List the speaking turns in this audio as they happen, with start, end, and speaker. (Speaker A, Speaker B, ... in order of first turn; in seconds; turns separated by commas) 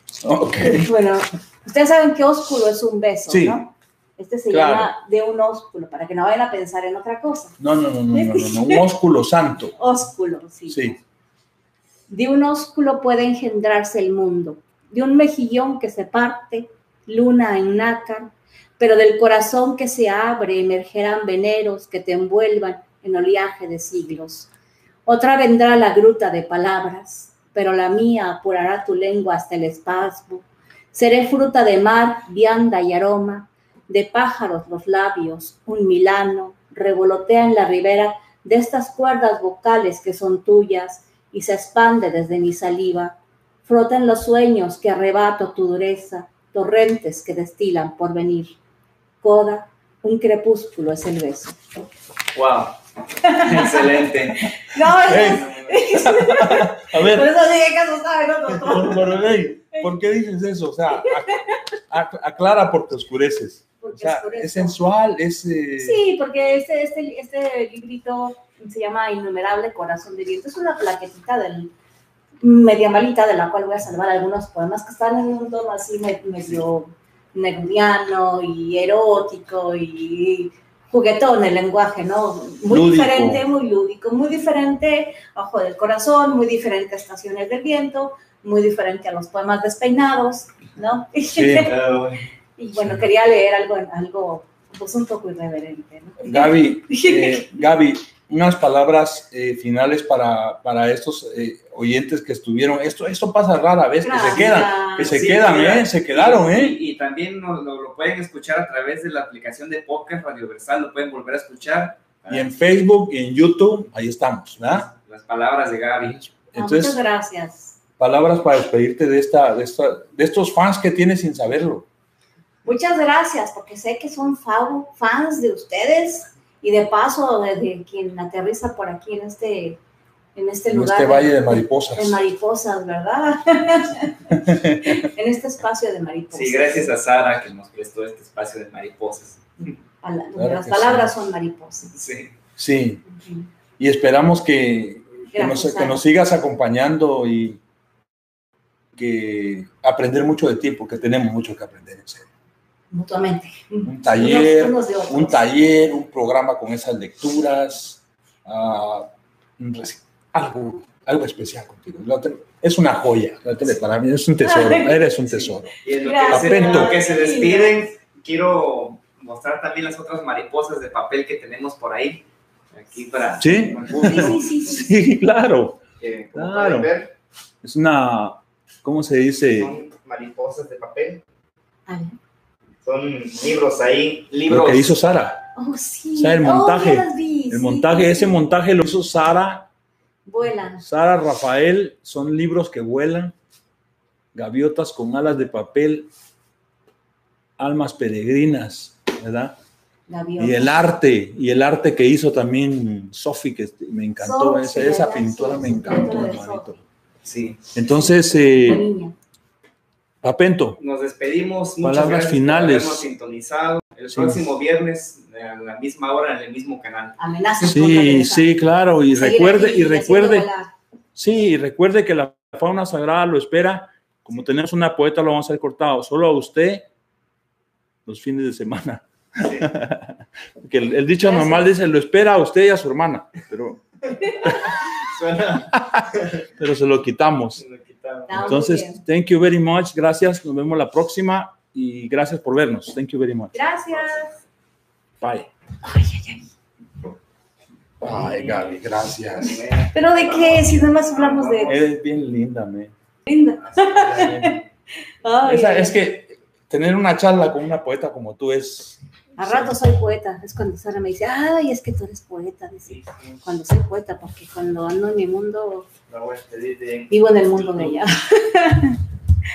Speaker A: 0.2-0.9, Speaker B: 0.5-7.5, Speaker A: 3.3-3.6, Speaker A: 4.5-4.9, Speaker A: 7.6-9.8, Speaker B: 8.1-8.8, Speaker B: 9.8-11.0, Speaker A: 10.7-11.0, Speaker B: 12.1-24.5, Speaker B: 25.1-48.6, Speaker B: 49.2-51.6, Speaker C: 52.3-54.4, Speaker B: 53.2-59.9, Speaker A: 55.1-55.5, Speaker C: 55.1-55.9, Speaker A: 56.0-57.3, Speaker A: 58.5-66.0, Speaker B: 60.9-61.6, Speaker B: 63.8-64.8, Speaker B: 65.8-71.7, Speaker B: 72.4-91.7, Speaker A: 82.7-83.4, Speaker A: 91.3-91.7, Speaker C: 91.6-92.2, Speaker B: 92.6-97.5, Speaker A: 96.2-106.8, Speaker B: 104.0-105.3, Speaker C: 105.0-112.5, Speaker A: 112.3-114.9, Speaker C: 114.9-116.2, Speaker A: 116.1-117.0, Speaker B: 116.5-117.8, Speaker A: 118.0-121.9, Speaker B: 122.6-129.8, Speaker B: 130.3-136.9, Speaker A: 130.7-132.2, Speaker A: 134.3-135.1, Speaker C: 136.3-139.7, Speaker B: 140.0-142.0, Speaker A: 140.4-141.1, Speaker C: 142.0-142.3, Speaker A: 142.6-143.0, Speaker B: 143.1-143.5, Speaker A: 143.8-147.6, Speaker B: 145.3-146.0, Speaker A: 148.9-152.2, Speaker B: 152.9-155.4, Speaker A: 153.8-165.7, Speaker B: 164.4-165.1, Speaker C: 165.8-174.4, Speaker B: 166.0-167.8, Speaker A: 166.3-166.9, Speaker A: 173.4-175.8, Speaker B: 173.9-174.9, Speaker C: 176.0-177.1, Speaker A: 176.3-176.9, Speaker A: 177.6-179.7, Speaker C: 179.6-181.2, Speaker B: 181.9-182.2, Speaker C: 182.8-185.0, Speaker A: 184.5-185.5, Speaker B: 185.5-188.4, Speaker A: 186.2-189.7, Speaker B: 190.2-190.8, Speaker A: 190.8-193.3, Speaker A: 194.3-196.1, Speaker A: 197.6-199.6, Speaker B: 200.1-200.8, Speaker A: 200.4-206.8, Speaker B: 204.2-206.7, Speaker C: 207.2-207.7, Speaker A: 207.7-208.8, Speaker B: 207.8-209.2, Speaker A: 210.2-210.8, Speaker C: 210.8-217.2, Speaker A: 211.8-213.0, Speaker A: 214.1-214.4, Speaker B: 217.2-218.5, Speaker A: 217.6-220.5, Speaker B: 219.1-220.7, Speaker A: 221.1-226.9, Speaker A: 228.0-234.6, Speaker C: 229.4-229.7, Speaker B: 231.2-231.7, Speaker C: 234.3-236.4, Speaker A: 235.7-237.6, Speaker C: 237.6-238.5, Speaker B: 238.3-239.0, Speaker A: 238.3-243.5, Speaker B: 243.5-244.3, Speaker C: 243.9-244.3, Speaker A: 245.2-245.5, Speaker B: 245.8-246.5, Speaker A: 248.0-249.6, Speaker C: 248.1-251.8, Speaker B: 249.9-251.7, Speaker A: 251.7-252.9, Speaker B: 253.2-254.6, Speaker C: 253.6-254.6, Speaker B: 255.2-256.0, Speaker A: 255.4-259.7, Speaker B: 259.4-265.9, Speaker C: 262.9-263.4, Speaker C: 266.1-268.0, Speaker B: 267.1-269.0